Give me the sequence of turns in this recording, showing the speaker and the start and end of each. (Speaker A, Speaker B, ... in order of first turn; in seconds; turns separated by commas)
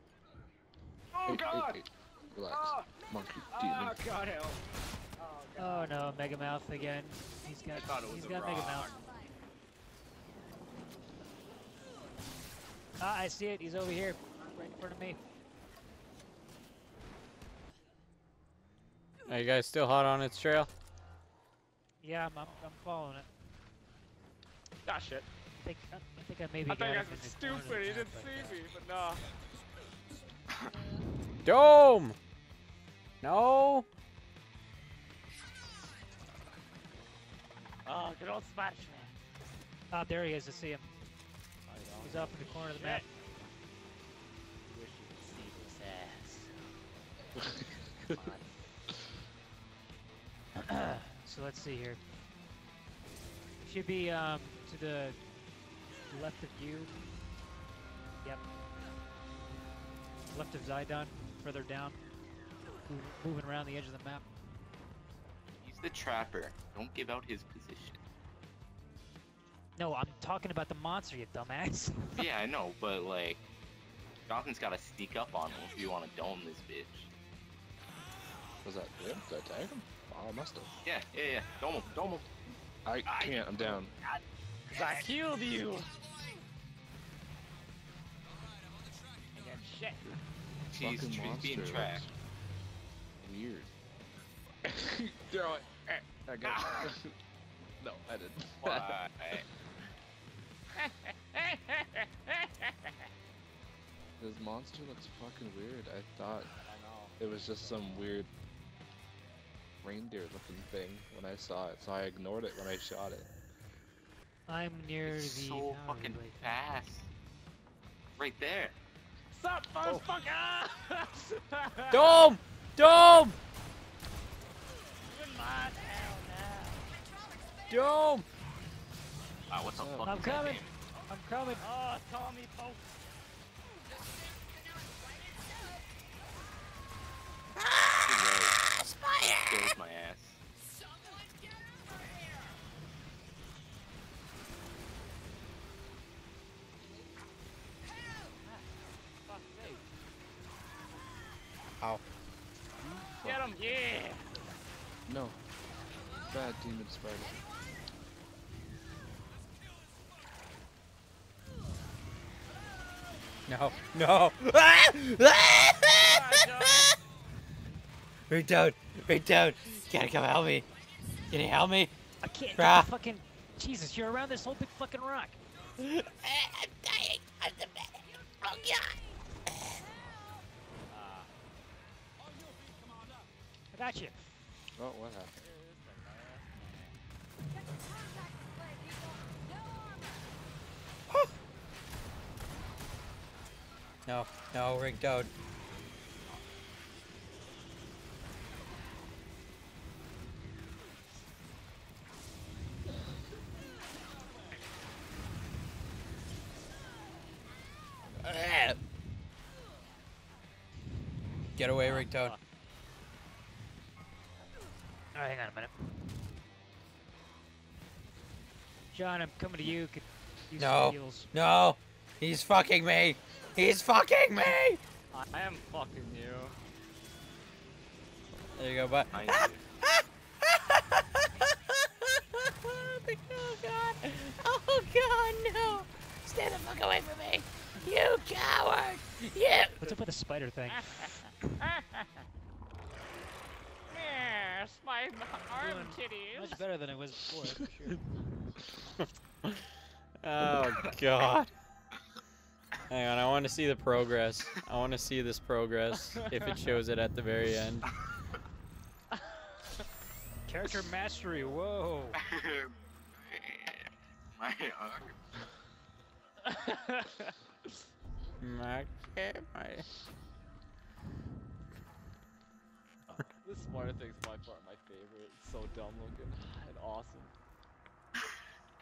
Speaker A: 1.1-1.8, Speaker B: 1.2-4.0, Speaker A: 2.5-2.8, Speaker A: 3.6-4.6, Speaker A: 5.2-5.9, Speaker C: 5.6-8.9, Speaker D: 7.7-8.9, Speaker C: 13.0-15.2, Speaker E: 19.3-20.7, Speaker C: 22.0-23.3, Speaker A: 24.9-25.3, Speaker C: 25.6-28.6, Speaker A: 26.7-29.3, Speaker E: 31.4-32.1, Speaker E: 33.2-33.9, Speaker A: 37.9-39.1, Speaker C: 39.9-40.9, Speaker A: 41.7-43.5, Speaker C: 42.0-43.0, Speaker A: 44.7-46.5, Speaker B: 47.4-48.4, Speaker A: 48.0-48.5, Speaker C: 50.7-52.0, Speaker C: 53.6-55.2, Speaker C: 56.1-56.9, Speaker C: 60.3-62.0, Speaker C: 62.9-64.2, Speaker D: 65.6-68.0, Speaker C: 69.8-72.3, Speaker D: 72.2-73.4, Speaker D: 74.3-77.1, Speaker B: 78.6-80.8, Speaker D: 80.8-82.3, Speaker B: 82.8-83.9, Speaker A: 83.0-86.0, Speaker A: 89.3-90.1, Speaker D: 90.7-92.1, Speaker B: 90.7-92.1, Speaker B: 93.2-93.7, Speaker B: 94.7-97.1, Speaker A: 96.5-96.8, Speaker B: 97.8-99.0, Speaker D: 98.6-99.5, Speaker A: 100.8-102.7, Speaker B: 104.2-106.5, Speaker A: 106.7-108.2, Speaker B: 107.2-108.3, Speaker B: 109.8-113.3, Speaker C: 114.5-116.5, Speaker D: 115.1-117.1, Speaker D: 118.2-118.8, Speaker A: 119.3-122.1, Speaker E: 121.9-123.4, Speaker A: 125.1-127.0, Speaker E: 127.7-128.2, Speaker D: 129.5-130.7, Speaker B: 129.7-130.2, Speaker C: 130.0-131.7, Speaker A: 131.5-133.0, Speaker E: 137.6-138.2, Speaker D: 138.0-138.6, Speaker E: 138.8-139.7, Speaker D: 139.2-140.4, Speaker A: 149.2-149.8, Speaker B: 152.8-153.5, Speaker A: 153.2-154.3, Speaker B: 155.1-155.4, Speaker B: 156.2-157.4, Speaker E: 163.5-166.9, Speaker A: 165.9-166.9, Speaker E: 168.3-170.7, Speaker E: 171.3-171.9, Speaker C: 172.2-175.4, Speaker E: 172.6-172.9, Speaker E: 175.8-178.9, Speaker A: 180.9-181.3, Speaker C: 183.7-184.2, Speaker B: 184.8-185.4, Speaker A: 185.4-187.0, Speaker E: 194.1-195.3, Speaker E: 208.2-208.8, Speaker E: 211.6-212.4, Speaker A: 211.8-212.4, Speaker C: 215.1-216.0, Speaker C: 218.9-221.3, Speaker E: 220.6-224.8, Speaker A: 225.1-226.6, Speaker E: 228.6-231.0, Speaker D: 229.1-229.6, Speaker E: 232.5-239.8, Speaker C: 239.8-240.8, Speaker A: 240.7-242.1, Speaker A: 243.9-246.6, Speaker C: 245.5-248.0, Speaker E: 250.2-251.5, Speaker E: 252.9-257.9, Speaker C: 260.5-262.2, Speaker D: 262.2-265.2, Speaker A: 266.5-267.3, Speaker E: 268.4-269.9, Speaker A: 273.2-277.3